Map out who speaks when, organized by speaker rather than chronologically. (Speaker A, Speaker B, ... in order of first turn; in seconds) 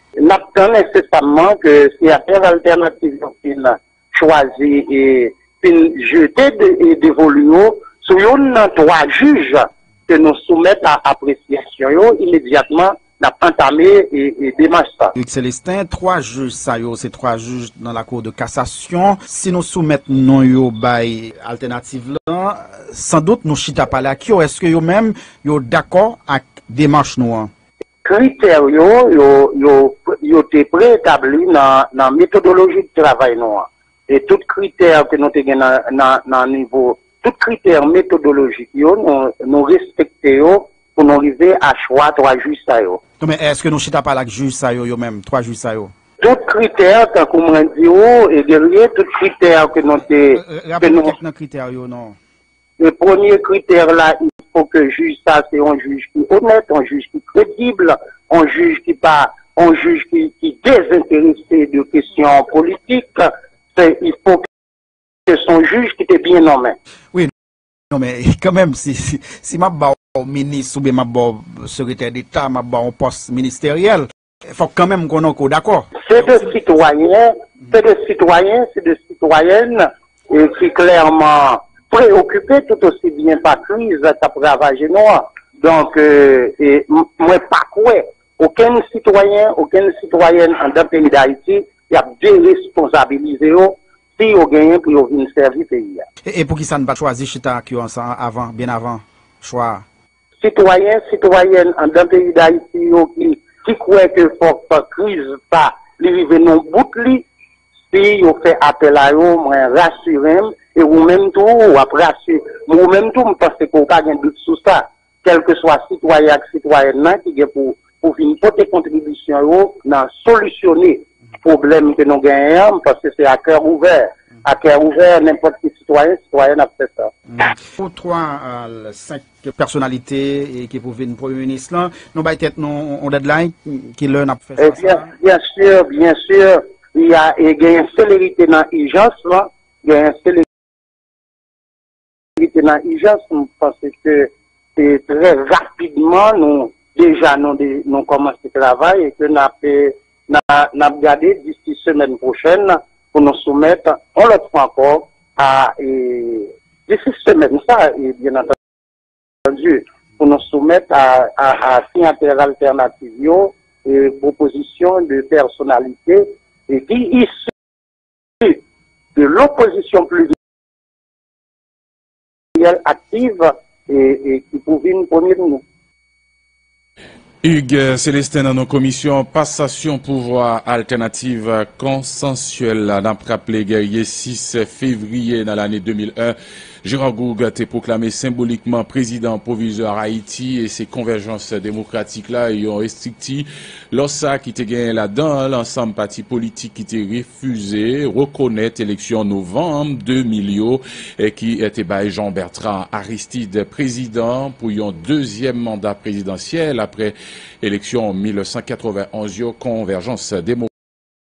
Speaker A: 0.2-15.1, 28.1-43.0, 46.2-51.1, 52.8-64.5, 65.3-66.8, 76.0-96.1, 100.4-107.3, 107.9-127.1, 134.6-140.4, 142.4-158.6, 159.5-167.4, 169.1-170.4, 172.6-175.6
Speaker B: 15.1-27.5, 43.2-45.9, 50.3-52.2, 67.9-75.9, 96.2-99.8, 127.3-135.1
Speaker C: 177.4-210.7